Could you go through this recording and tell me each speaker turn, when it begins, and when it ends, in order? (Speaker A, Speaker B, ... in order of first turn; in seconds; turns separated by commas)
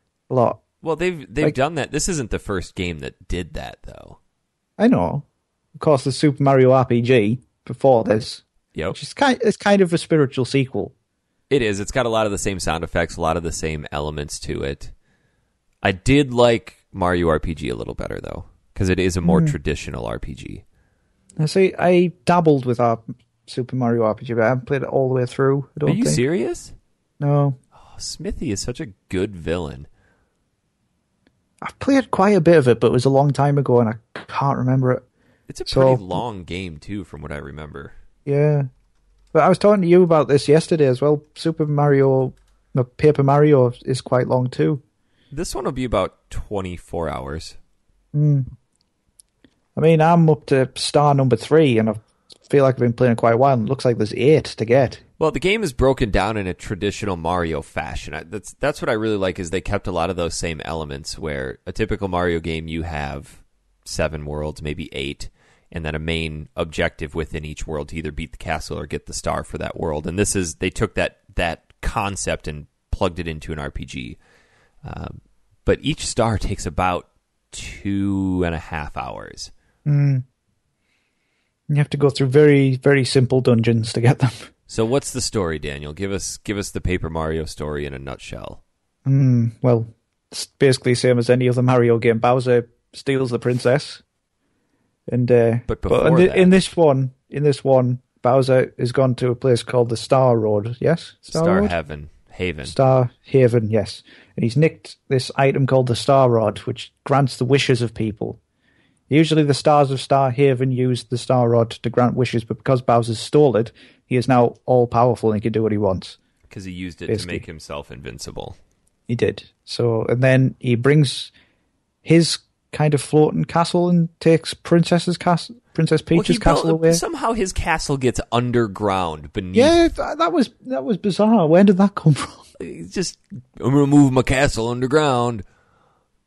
Speaker A: 0.3-0.6, Speaker B: 0.8-4.2, Speaker A: 4.8-5.2, Speaker A: 5.8-10.9, Speaker B: 11.5-14.9, Speaker B: 15.8-20.6, Speaker A: 19.2-19.6, Speaker A: 21.4-26.2, Speaker B: 25.8-26.7, Speaker A: 27.2-27.6, Speaker B: 27.8-29.9, Speaker A: 31.6-35.0, Speaker B: 35.5-37.9, Speaker A: 35.7-36.2, Speaker A: 38.2-38.7, Speaker A: 39.3-44.8, Speaker B: 45.3-47.6, Speaker A: 48.1-48.5, Speaker A: 49.8-55.0, Speaker B: 55.2-74.2, Speaker B: 74.8-79.5, Speaker A: 79.8-80.2, Speaker A: 81.7-84.5, Speaker B: 84.7-88.6, Speaker A: 89.0-94.0, Speaker A: 95.1-101.7, Speaker B: 95.7-96.6, Speaker B: 101.3-102.7, Speaker A: 102.7-108.4, Speaker A: 109.1-116.2, Speaker B: 116.5-118.6, Speaker A: 117.1-117.4, Speaker A: 119.1-121.3, Speaker A: 122.0-127.0, Speaker B: 126.1-129.9, Speaker A: 129.5-132.5, Speaker B: 132.6-135.4